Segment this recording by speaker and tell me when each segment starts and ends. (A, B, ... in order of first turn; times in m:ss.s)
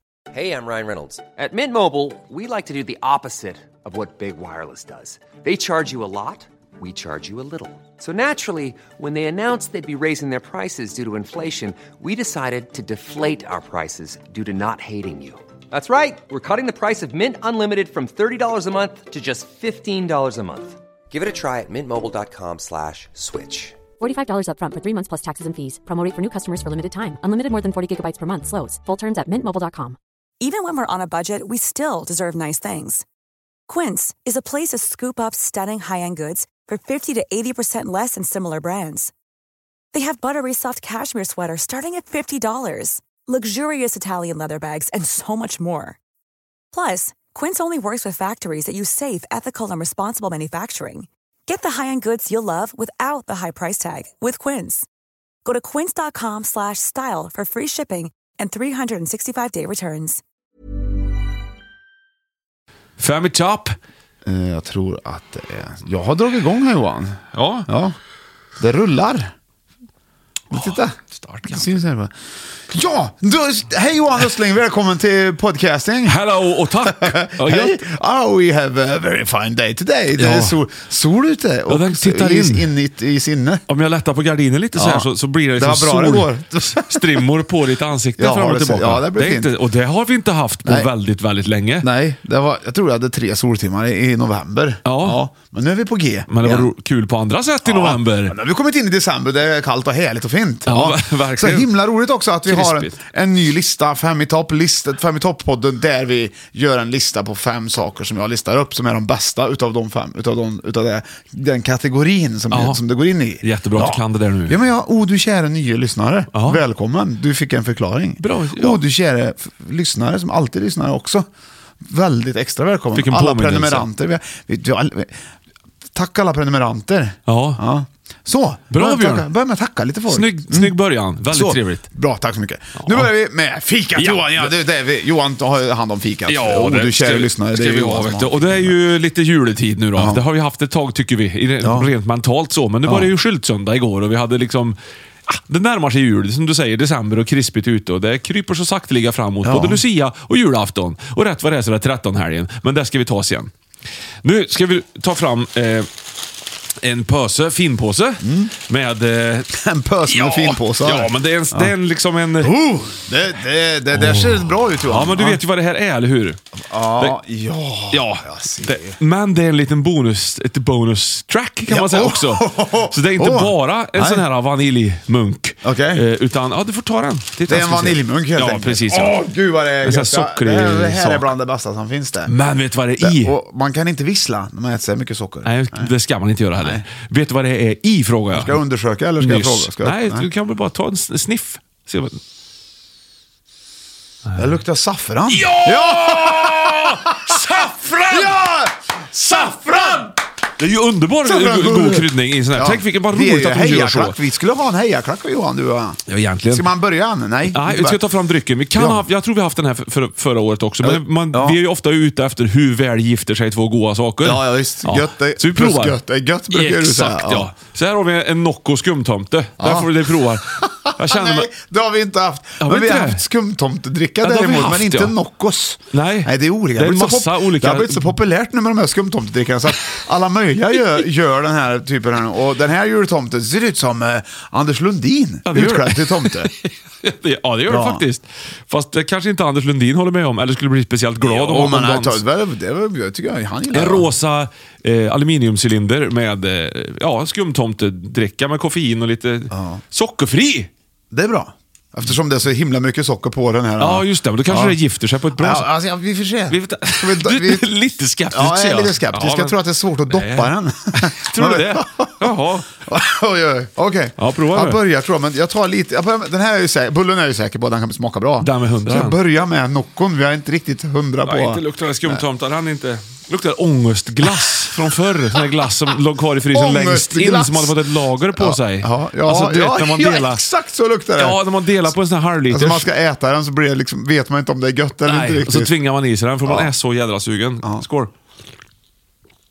0:00.3-0:23.8 A
0:24.0-0:30.0 B
0:30.4-0:33.0 C
0:33.7-0:39.1 C
0:39.9-0:46.0 C
0:46.7-0:54.9 C
0:55.4-1:00.2 C
1:03.0-1:03.8 D
1:04.2-1:08.0 E
1:07.3-1:07.7 D
1:08.6-1:09.3 E
1:10.5-1:11.0 E
1:10.5-1:11.7 D
1:11.5-1:12.1 E
1:12.7-1:16.2 E
1:16.0-1:17.8 D
1:16.9-1:23.6 E
1:20.2-1:20.6 D
1:21.7-1:22.7 D
1:23.7-1:31.9 D
1:24.8-1:27.3 E
1:28.2-1:29.5 E
1:30.6-1:30.9 E
1:31.8-1:36.7 E
1:34.8-1:35.2 D
1:36.3-1:38.4 D
1:37.6-2:01.3 E
1:40.7-1:41.7 D
1:42.5-1:43.0 D
1:52.5-1:52.8 D
1:53.4-1:54.6 D
1:56.3-1:56.6 D
1:58.2-1:58.8 D
2:01.8-2:05.2 E
2:02.9-2:03.9 D
2:05.9-2:10.8 E
2:07.3-2:07.6 D
2:08.7-2:09.3 D
2:10.1-2:11.8 D
2:11.3-2:18.7 E
2:12.8-2:13.1 D
2:14.0-2:14.5 D
2:16.3-2:33.5 D
2:21.6-2:21.9 E
2:29.4-2:29.8 E
2:34.2-2:35.9 D
2:36.8-2:39.5 D
2:38.2-2:38.5 E
2:39.5-2:41.7 E
2:40.1-2:42.5 D
2:42.4-2:45.4 E
2:43.9-2:46.4 D
2:46.6-2:49.0 E
2:47.9-2:59.2 D
2:51.7-2:54.2 E
2:55.6-2:56.0 E
2:57.5-3:02.3 E
2:59.8-3:01.3 D
3:02.3-3:03.4 D
3:03.0-3:05.9 E
3:05.4-3:08.6 D
3:06.6-3:06.8 E
3:08.3-3:10.3 E
3:09.2-3:12.2 D
3:14.4-3:20.1 E
3:15.3-3:18.4 D
3:20.6-3:24.2 D
3:21.2-3:28.0 E
3:26.1-3:26.7 D
3:27.5-3:36.0 D
3:28.8-3:29.0 E
3:30.8-3:31.6 E
3:34.2-3:37.5 E
3:36.5-3:41.5 D
3:39.6-3:39.9 E
3:40.5-3:56.5 E
3:42.6-3:43.2 D
3:44.2-3:45.2 D
3:45.9-3:48.2 D
3:55.5-4:02.2 D
3:57.7-3:58.0 E
4:01.2-4:04.1 E
4:03.7-4:10.7 D
4:09.5-4:09.8 E
4:11.1-4:14.8 E
4:13.8-4:15.7 D
4:15.4-4:17.7 E
4:16.5-4:22.7 D
4:18.3-4:32.2 E
4:24.2-4:24.8 D
4:28.4-4:29.2 D
4:31.2-4:40.4 D
4:36.5-4:37.8 E
4:38.3-4:41.9 E
4:41.2-4:42.9 D
4:42.5-4:45.8 E
4:45.1-4:48.1 D